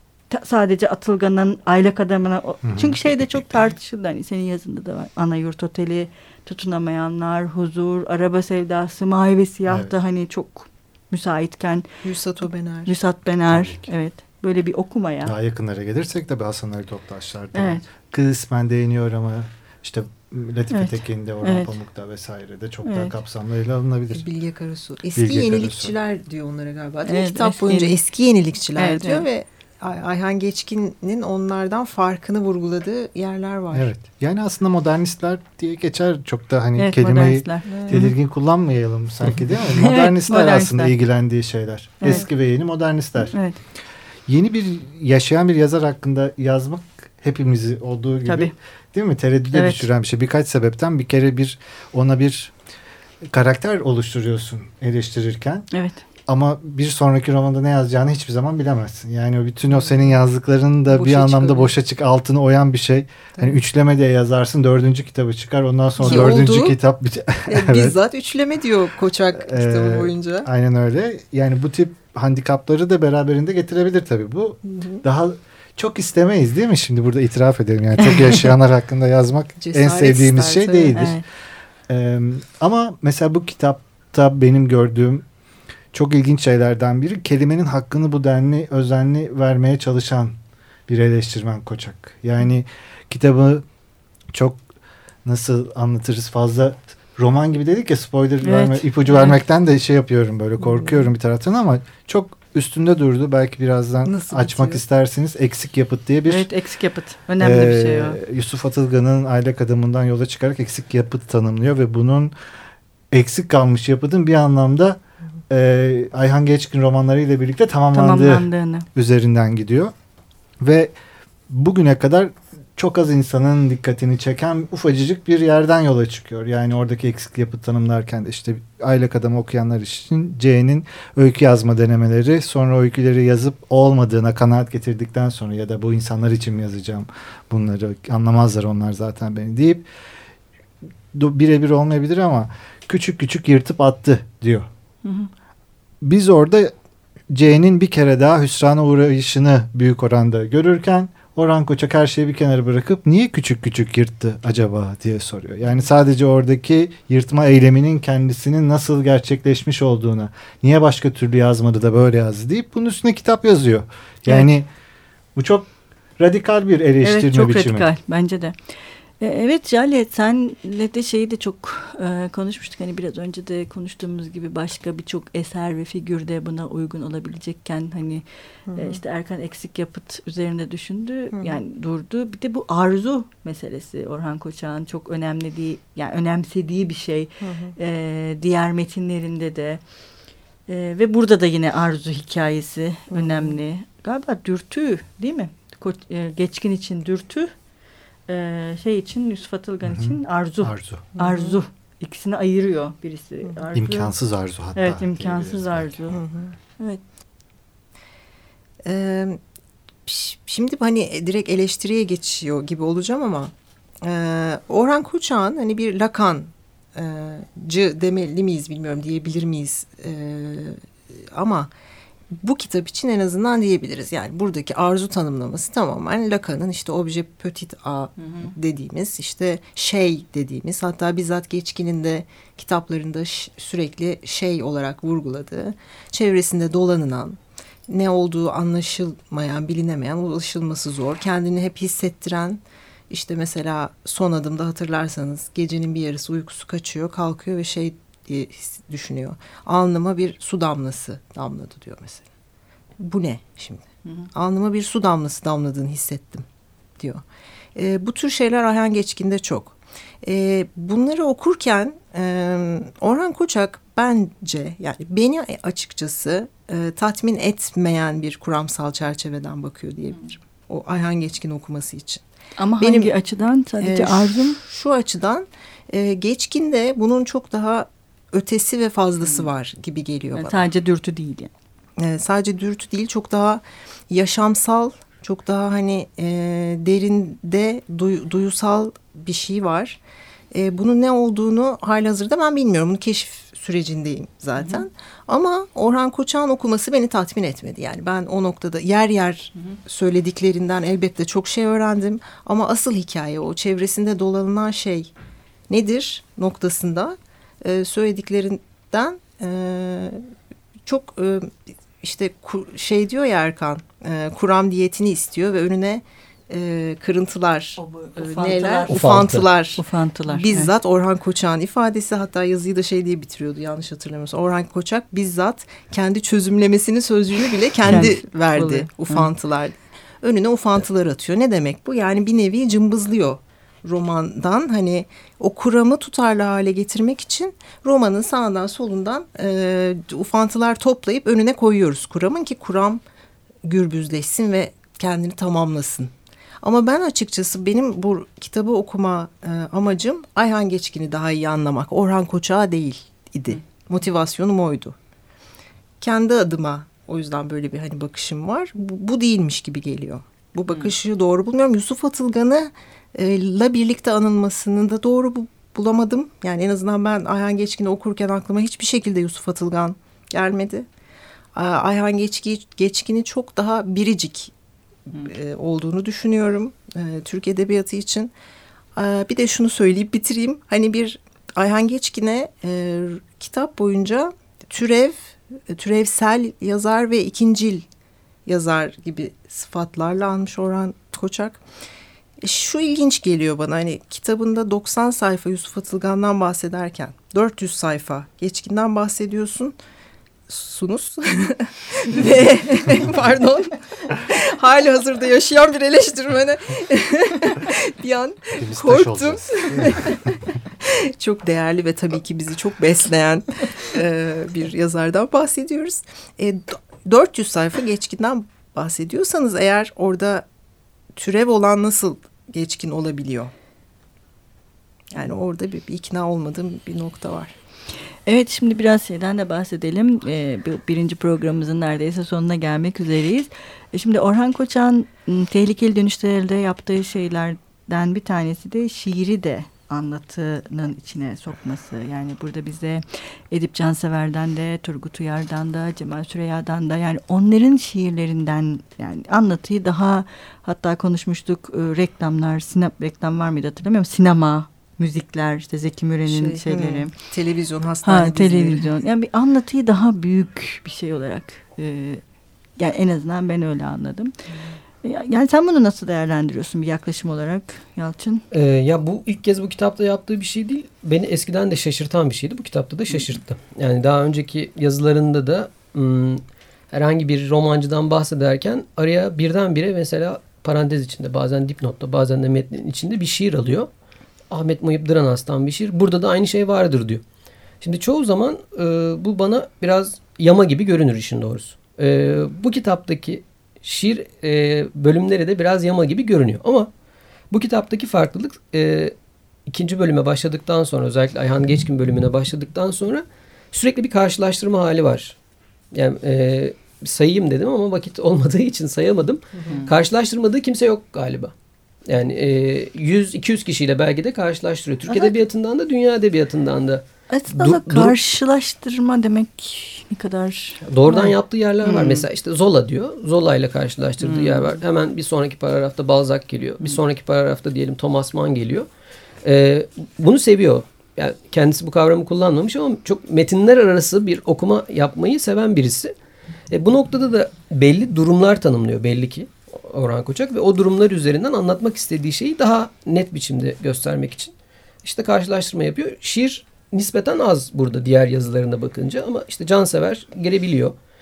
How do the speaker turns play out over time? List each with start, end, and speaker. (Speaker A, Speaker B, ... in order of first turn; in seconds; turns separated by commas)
Speaker A: 0.3-11.9, Speaker B: 2.6-3.1, Speaker B: 9.7-9.9, Speaker C: 12.0-12.9, Speaker A: 12.9-15.3, Speaker B: 13.5-13.9, Speaker B: 15.2-24.2, Speaker A: 17.5-17.9, Speaker A: 20.7-21.7, Speaker A: 22.9-23.1, Speaker C: 24.1-33.9, Speaker B: 25.2-25.9, Speaker A: 27.1-28.0, Speaker A: 28.8-29.3, Speaker B: 33.7-43.4, Speaker A: 36.8-38.1, Speaker C: 37.7-38.0, Speaker A: 39.8-40.9, Speaker A: 42.0-42.3, Speaker A: 43.3-43.6, Speaker B: 44.3-52.5, Speaker A: 48.2-48.5, Speaker A: 49.5-49.9, Speaker B: 53.2-55.7, Speaker A: 55.7-56.0, Speaker B: 56.3-68.0, Speaker C: 60.9-61.7, Speaker C: 66.0-66.8, Speaker C: 67.5-70.5, Speaker B: 69.3-81.2, Speaker C: 74.7-75.0, Speaker C: 79.6-81.1, Speaker A: 80.9-81.2, Speaker B: 81.9-85.2, Speaker B: 85.9-90.3, Speaker B: 90.9-93.7, Speaker B: 94.3-94.6, Speaker B: 95.2-106.5, Speaker A: 98.4-99.4, Speaker C: 104.0-104.8, Speaker A: 106.3-108.2, Speaker B: 107.4-112.3, Speaker B: 113.1-119.9, Speaker A: 117.9-118.9, Speaker B: 120.6-120.9, Speaker B: 121.5-139.9, Speaker B: 141.1-144.7, Speaker A: 145.0-145.3, Speaker B: 146.0-146.7, Speaker B: 147.3-164.7, Speaker B: 165.3-167.9, Speaker A: 167.0-168.6, Speaker A: 169.2-189.8, Speaker C: 178.7-179.0, Speaker C: 187.4-187.8, Speaker A: 190.7-197.5, Speaker C: 193.1-193.6, Speaker A: 198.3-204.1, Speaker B: 199.8-201.1, Speaker C: 201.2-201.6, Speaker B: 203.7-205.9, Speaker A: 204.8-206.2, Speaker C: 206.1-206.6, Speaker C: 208.8-209.4, Speaker C: 210.1-221.7, Speaker C: 222.3-252.2, Speaker A: 228.2-228.5, Speaker C: 253.0-256.4, Speaker C: 257.8-272.2, Speaker A: 272.6-274.6, Speaker C: 272.8-273.1, Speaker C: 273.8-280.6, Speaker A: 280.3-281.5, Speaker C: 282.0-290.0, Speaker C: 290.5-305.1, Speaker A: 294.6-294.8, Speaker C: 305.7-310.2, Speaker C: 310.9-343.0, Speaker A: 317.8-320.7, Speaker D: 318.9-319.5, Speaker A: 327.9-329.3, Speaker C: 343.6-355.0, Speaker C: 356.0-370.9, Speaker C: 371.5-374.5, Speaker C: 375.1-378.3, Speaker C: 378.9-387.9, Speaker C: 388.5-391.6, Speaker C: 392.4-399.8, Speaker C: 400.5-420.4, Speaker B: 408.6-410.1, Speaker C: 421.1-423.5, Speaker C: 425.1-427.6, Speaker A: 428.3-457.1, Speaker C: 456.3-458.9, Speaker A: 458.1-462.2, Speaker A: 462.8-464.3, Speaker A: 465.0-468.4, Speaker D: 468.5-483.9, Speaker D: 484.5-487.2, Speaker D: 487.8-496.9, Speaker D: 497.5-499.1, Speaker D: 499.7-505.4, Speaker D: 505.9-511.5, Speaker D: 512.1-518.1, Speaker A: 515.1-515.4, Speaker A: 517.3-522.3, Speaker D: 520.9-528.9, Speaker A: 524.2-524.8, Speaker D: 529.4-536.1, Speaker D: 536.7-544.5, Speaker D: 545.0-551.0